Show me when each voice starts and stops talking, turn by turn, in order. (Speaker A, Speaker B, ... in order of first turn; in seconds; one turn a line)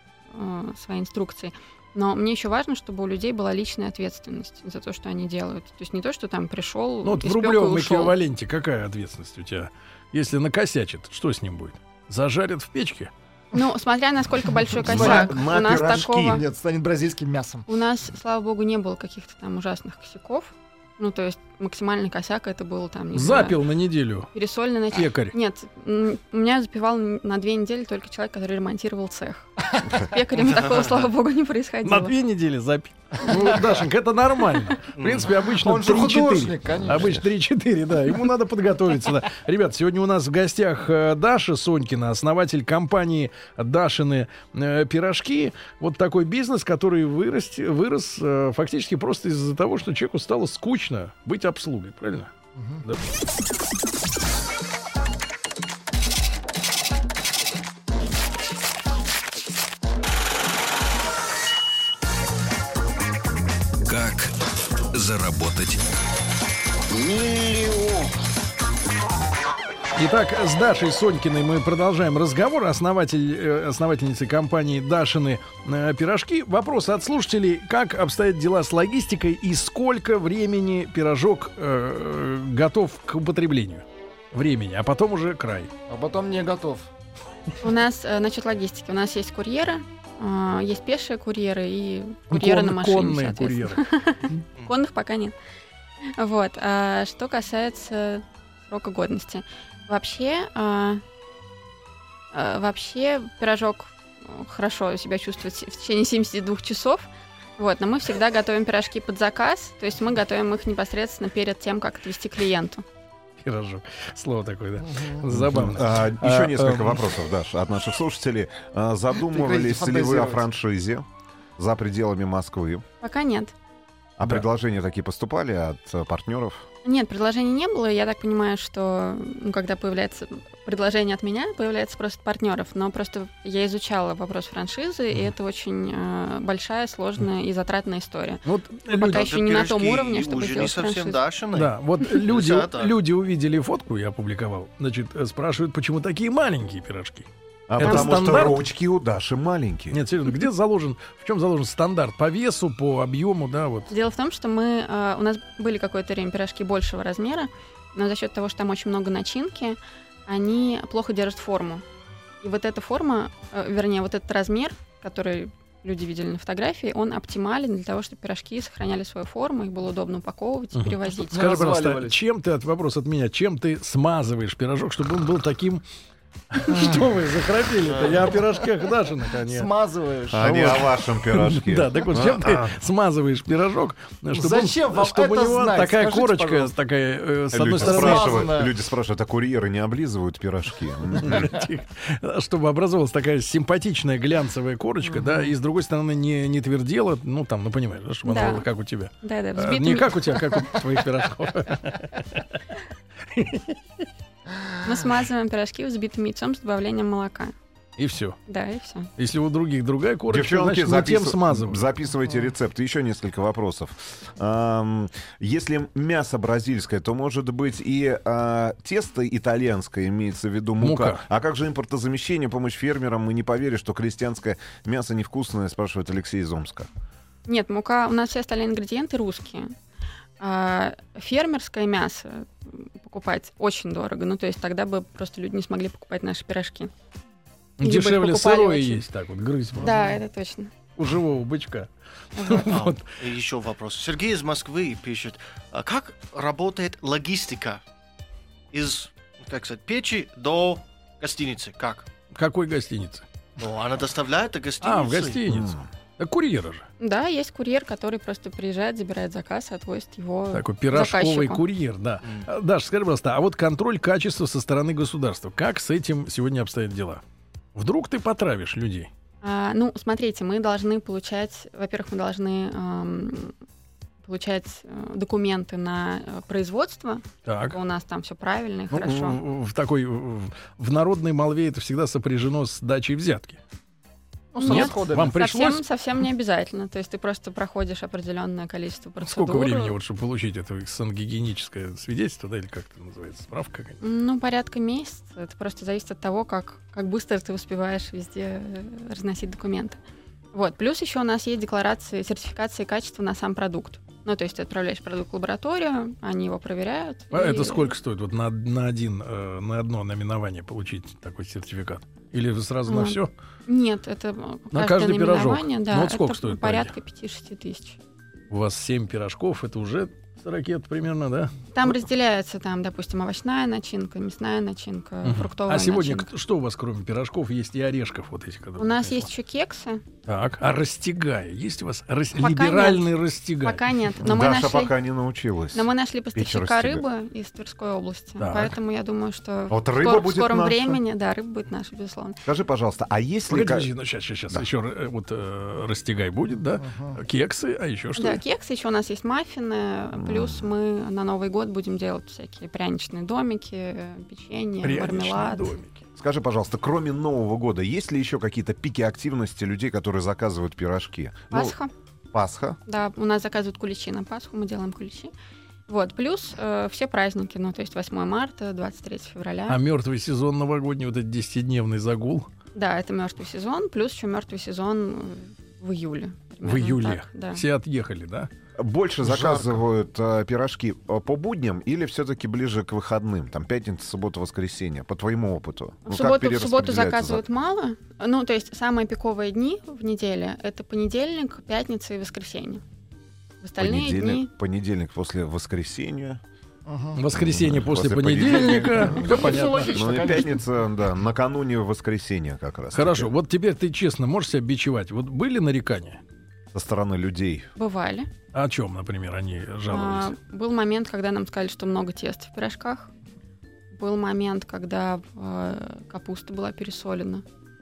Speaker A: 0.3-8.2
Speaker B: 7.0-13.1
Speaker A: 13.5-16.4
Speaker C: 14.8-17.7
Speaker D: 14.9-16.4
Speaker A: 17.7-23.6
Speaker B: 23.1-24.3
Speaker A: 24.3-32.1
Speaker B: 24.9-25.4
Speaker E: 30.4-31.1
Speaker B: 31.8-53.1
Speaker C: 33.3-33.6
Speaker E: 35.0-35.4
Speaker C: 35.5-37.2
Speaker C: 52.6-52.8
Speaker F: 63.9-64.4
Speaker F: 64.9-65.8
Speaker F: 66.9-68.1
Speaker B: 70.0-85.7
Speaker C: 85.9-86.9
Speaker A: 87.6-95.3
Speaker B: 92.3-93.8
Speaker A: 96.2-101.0
Speaker A: 102.3-112.8
Speaker B: 113.4-117.0
Speaker C: 114.8-115.3
Speaker D: 115.3-121.0
Speaker C: 119.2-120.5
Speaker D: 121.6-122.8
Speaker A: 123.0-123.5
Speaker D: 124.2-126.6
Speaker A: 126.8-141.2
Speaker B: 138.5-139.3
Speaker E: 139.0-142.9
Speaker B: 141.5-147.3
Speaker D: 147.7-150.0
Speaker B: 147.8-148.6
Speaker B: 149.9-153.9
Speaker A: 153.9-161.8
Speaker A: 162.4-171.4
Speaker B: 170.7-175.8
Speaker C: 171.3-172.2
Speaker B: 176.5-179.7
Speaker C: 176.7-177.0
Speaker E: 177.8-178.3
Speaker C: 179.4-180.6
Speaker D: 180.3-182.7
Speaker B: 180.6-188.5
Speaker C: 184.3-186.7
Speaker D: 187.5-191.5
Speaker C: 187.8-188.8
Speaker B: 191.2-202.6
Speaker A: 198.2-198.7
Speaker A: 199.2-200.8
Speaker B: 203.3-204.1
Speaker A: 204.8-207.5
Speaker B: 208.0-208.4
Speaker A: 208.5-209.1
Speaker B: 209.2-211.9
Speaker D: 210.3-226.9
Speaker B: 220.8-221.2
Speaker A: 227.5-229.7
Speaker A: 230.4-236.9
Speaker B: 237.8-240.1
Speaker A: 237.8-239.0
Speaker A: 239.8-240.7
Speaker B: 241.0-243.2
Speaker A: 242.4-242.6
Speaker E: 242.7-247.8
Speaker E: 248.7-252.1
Speaker B: 252.3-253.2
Speaker E: 253.6-255.4
Speaker B: 254.8-256.9
Speaker D: 255.5-255.8
Speaker A: 257.0-261.6
Speaker B: 260.5-267.2
Speaker B: 267.8-269.1
Speaker A: 269.4-273.6
Speaker A: 274.2-279.4
Speaker B: 277.4-277.8
Speaker B: 278.9-283.6
Speaker C: 284.5-285.4
Speaker A: 284.6-290.0
Speaker B: 284.6-285.8
Speaker B: 289.2-294.0
Speaker A: 294.0-300.0
Speaker A: 300.5-307.9
Speaker B: 307.3-313.3
Speaker A: 312.9-318.0
Speaker B: 314.7-316.9
Speaker B: 318.5-321.9
Speaker A: 321.7-326.3
Speaker B: 325.2-329.2
Speaker A: 328.8-330.0
Speaker B: 330.3-333.9
Speaker A: 332.4-333.1
Speaker A: 333.6-334.9
Speaker D: 334.2-337.0
Speaker A: 335.7-342.4
Speaker B: 338.4-338.8
Speaker D: 339.7-341.0
Speaker D: 342.5-343.9
Speaker B: 343.5-348.4
Speaker C: 346.8-347.2
Speaker A: 348.2-355.8
Speaker D: 350.2-350.7
Speaker B: 354.8-356.0
Speaker D: 356.2-361.8
Speaker A: 361.5-361.9
Speaker D: 362.3-362.8
Speaker A: 362.9-365.3
Speaker A: 365.9-369.8
Speaker B: 369.7-372.5
Speaker A: 372.8-377.6
Speaker B: 376.6-378.5
Speaker D: 378.8-387.4
Speaker C: 379.2-379.8
Speaker A: 386.1-392.8
Speaker A: 393.6-394.5
Speaker D: 393.8-396.4
Speaker C: 396.9-397.2
Speaker B: 397.2-400.4
Speaker D: 397.3-403.3
Speaker C: 398.4-400.6
Speaker B: 402.9-406.2
Speaker D: 406.7-407.7
Speaker A: 407.8-408.3
Speaker B: 408.5-410.3
Speaker A: 409.9-413.1
Speaker A: 413.9-417.4